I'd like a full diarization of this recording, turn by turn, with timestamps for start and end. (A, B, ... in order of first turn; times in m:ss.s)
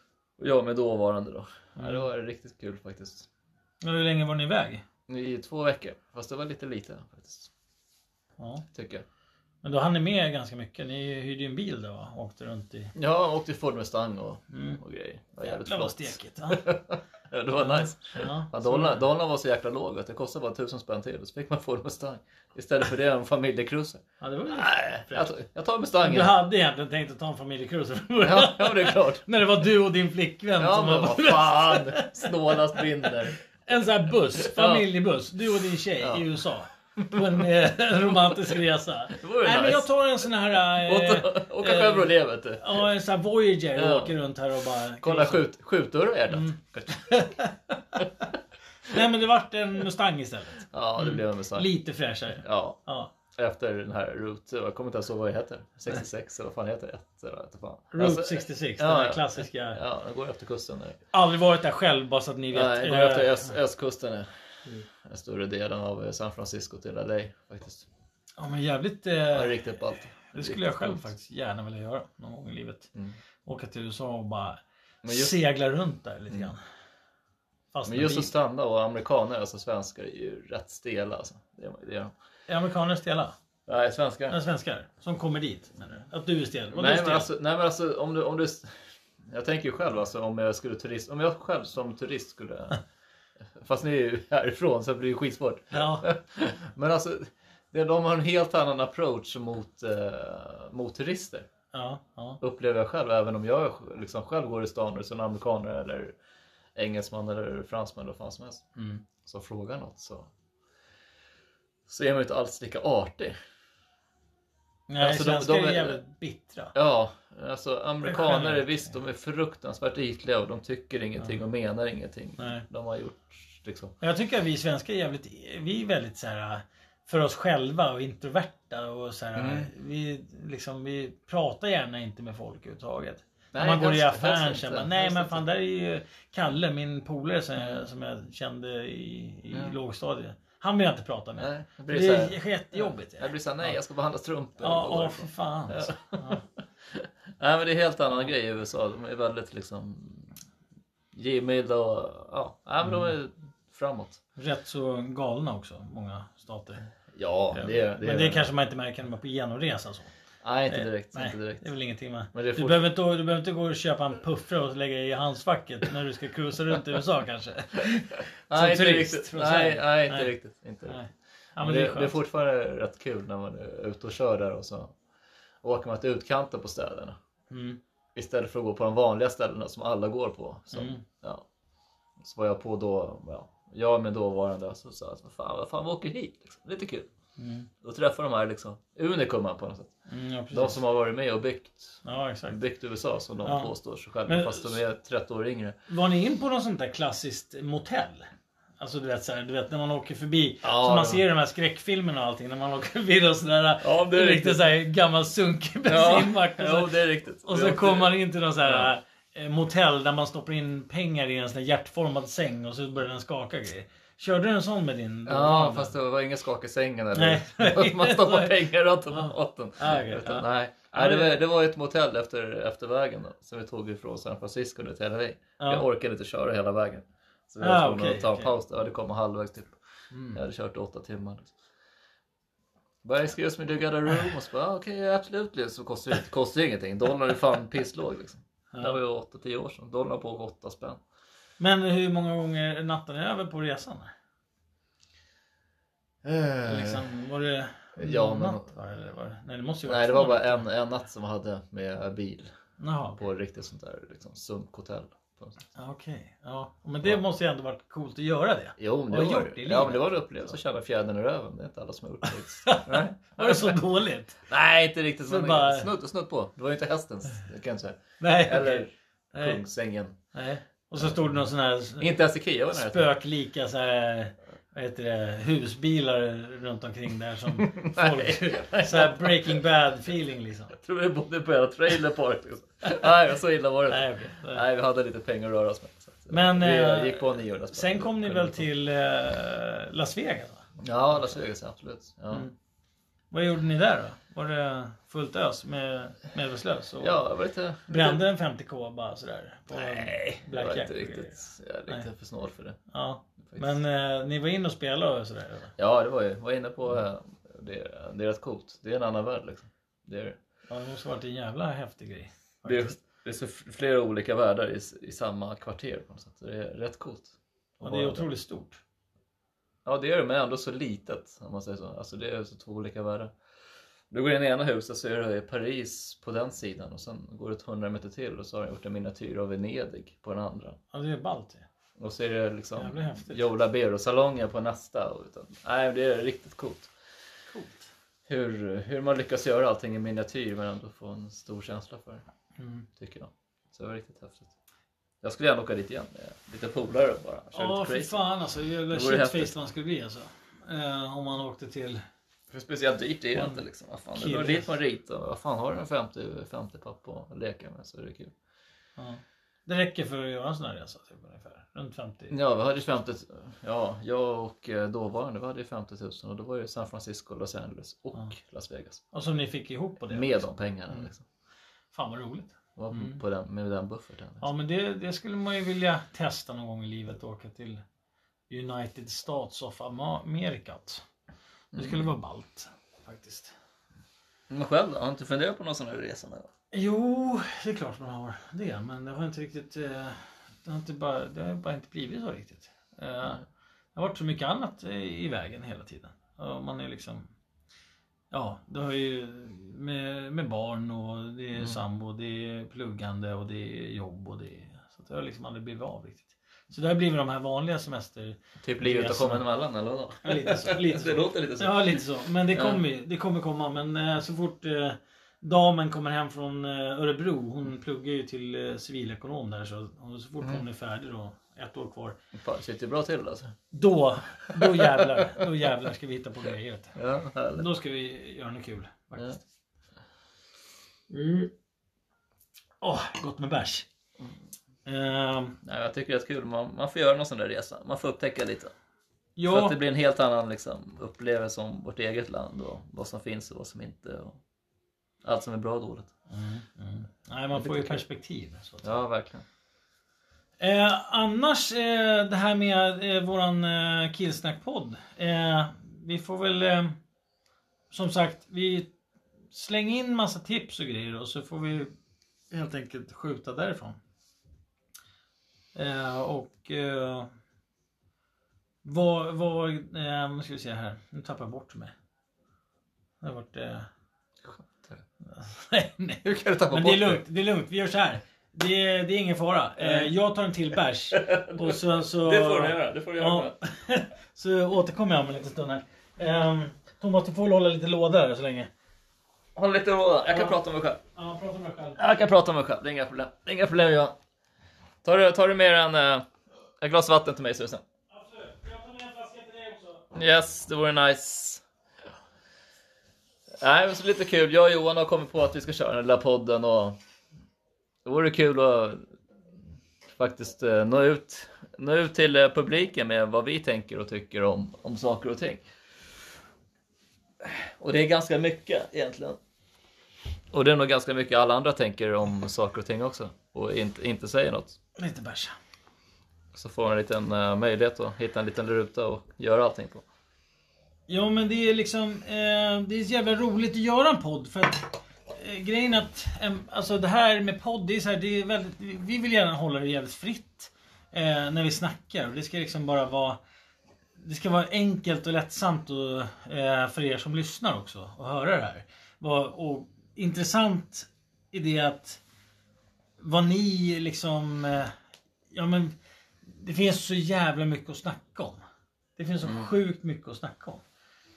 0:00.4-0:03.3 A
0:01.8-0:02.1 B
0:03.8-0:04.8 B
0:05.1-0:07.5 A
0:08.4-0:08.6 B
0:08.7-0:09.0 A
0:09.6-0:12.9 B
0:13.0-0:26.4 A
0:14.5-0:14.8 B
0:15.4-0:16.6 B
0:17.6-0:19.0 B
0:24.2-0:25.3 B
0:26.0-0:45.5 B
0:28.2-0:29.2 A
0:30.6-0:33.4 A
0:34.4-0:34.8 A
0:36.0-0:36.3 A
0:37.0-0:37.4 A
0:39.1-0:39.9 A
0:40.8-0:42.8 A
0:43.7-0:44.2 A
0:45.0-0:47.2 A
0:46.3-0:48.0 B
0:48.9-0:53.1 B
0:50.7-0:51.7 A
0:52.4-0:52.8 A
0:53.4-1:01.0 A
0:57.9-0:59.8 B
1:01.1-1:03.6 B
1:02.5-1:07.9 A
1:08.4-1:12.9 B
1:09.3-1:11.0 A
1:13.4-1:16.6 B
1:15.0-1:15.4 A
1:17.7-1:18.3 B
1:17.8-1:22.1 A
1:22.5-1:23.3 B
1:23.7-1:24.4 A
1:24.3-1:27.3 B
1:26.7-1:28.7 A
1:29.3-1:32.8 A
1:33.6-1:41.4 A
1:35.7-1:36.0 B
1:41.7-1:42.4 B
1:42.4-1:46.1 A
1:46.8-1:48.6 A
1:48.8-1:49.0 B
1:49.2-1:50.3 A
1:51.9-1:53.3 A
1:54.9-1:56.7 B
1:55.0-1:56.0 A
1:56.7-2:03.9 A
1:58.0-1:58.9 B
2:02.4-2:02.6 B
2:04.0-2:23.8 B
2:09.3-2:09.7 A
2:13.5-2:15.4 A
2:17.6-2:17.8 A
2:21.4-2:26.4 A
2:24.6-2:26.4 B
2:27.0-2:30.4 A
2:31.1-2:34.2 A
2:32.8-2:33.1 B
2:34.4-2:36.8 B
2:37.1-2:38.5 A
2:37.5-2:40.1 B
2:40.4-2:41.7 A
2:40.7-2:50.3 B
2:42.3-2:42.8 A
2:48.5-2:51.0 A
2:50.8-2:52.1 B
2:51.6-2:54.9 A
2:55.6-2:57.2 A
2:57.5-2:57.8 B
2:58.1-3:01.4 A
3:00.7-3:01.0 B
3:02.2-3:07.1 A
3:07.4-3:07.7 B
3:07.8-3:09.9 A
3:10.1-3:10.8 B
3:10.5-3:15.8 A
3:12.0-3:12.6 B
3:13.4-3:13.7 B
3:14.3-3:14.8 B
3:15.9-3:18.3 B
3:18.8-3:35.9 B
3:20.6-3:21.2 A
3:23.8-3:24.6 A
3:25.8-3:28.9 A
3:35.2-3:49.7 A
3:37.1-3:41.4 B
3:45.6-3:45.8 B
3:47.6-3:48.5 B
3:50.1-3:50.4 B
3:50.3-3:51.5 A
3:53.0-4:01.0 A
3:58.7-3:59.0 B
4:01.6-4:04.1 B
4:06.2-4:07.1 A
4:06.6-4:10.6 B
4:08.0-4:08.7 A
4:09.8-4:12.5 A
4:12.8-4:13.2 B
4:13.2-4:15.6 A
4:15.7-4:20.5 B
4:18.8-4:23.8 A
4:22.3-4:24.4 B
4:24.5-4:30.1 A
4:25.2-4:25.9 B
4:28.2-4:29.6 B
4:30.3-4:40.8 B
4:32.0-4:33.1 A
4:37.6-4:39.6 A
4:40.8-4:48.7 A
4:43.9-4:44.6 B
4:46.3-4:50.6 B
4:50.8-4:52.5 A
4:53.3-4:57.2 B
4:57.0-4:58.2 A
4:57.9-5:02.0 B
4:59.7-5:02.8 A
5:02.9-5:05.7 B
5:03.4-5:03.8 A
5:05.8-5:10.4 A
5:10.7-5:13.0 B
5:12.6-5:18.3 A
5:17.8-5:18.8 B
5:19.8-5:23.3 A
5:24.1-5:30.8 A
5:30.9-5:31.6 B
5:32.0-5:36.9 A
5:32.7-5:33.5 B
5:37.5-5:37.9 B
5:38.3-5:42.2 A
5:42.6-5:42.9 B
5:43.0-5:44.5 A
5:45.2-5:48.2 A
5:47.5-5:52.0 B
5:48.9-5:49.6 A
5:52.5-5:58.3 A
5:53.3-5:54.7 B
5:59.0-6:02.3 B
6:02.3-6:09.0 A
6:09.1-6:11.1 B
6:10.1-6:11.2 A
6:11.9-6:13.2 B
6:12.8-6:14.4 A
6:14.4-6:17.8 B
6:18.5-6:21.0 B
6:21.7-6:22.1 A
6:21.7-6:23.5 B
6:24.5-6:26.5 A
6:26.7-6:37.3 B
6:38.3-6:49.4 B
6:41.6-6:41.8 A
6:48.6-6:52.8 A
6:50.2-7:02.2 B
7:02.3-7:03.5 A
7:03.7-7:07.0 B
7:04.5-7:05.4 A
7:07.0-7:07.7 A
7:07.5-7:09.4 B
7:11.1-7:11.5 B
7:12.8-7:13.8 B
7:14.8-7:15.6 B
7:15.6-7:18.7 A
7:19.4-7:19.8 B
7:19.5-7:24.4 A
7:25.2-7:26.1 A
7:26.3-7:29.0 B
7:27.5-7:28.0 A
7:28.8-7:29.4 A
7:30.6-7:37.0 B
7:37.9-7:38.9 B
7:39.5-7:41.9 B
7:42.5-7:44.0 B
7:45.7-7:47.3 B
7:48.8-7:51.9 B
7:53.2-7:53.9 B
7:54.5-7:55.0 A
7:55.2-8:08.7 B
7:56.2-7:57.2 A
7:59.8-8:00.1 A
8:01.1-8:03.6 A
8:09.6-8:11.0 A
8:10.3-8:10.6 B
8:11.1-8:12.1 B
8:12.0-8:14.2 A
8:15.0-8:16.2 A
8:16.8-8:17.8 A
8:18.1-8:20.1 B
8:20.1-8:21.6 A
8:23.6-8:27.0 A
8:28.0-8:29.0 A
8:30.1-8:35.6 A
8:37.4-8:39.4 A
8:40.5-8:44.8 A
8:45.0-8:45.5 B
8:46.5-8:50.0 A
8:51.1-9:03.4 B
9:04.2-9:12.2 B
9:13.2-9:14.9 B
9:15.5-9:15.9 B
9:16.4-9:18.6 B
9:19.2-9:20.8 B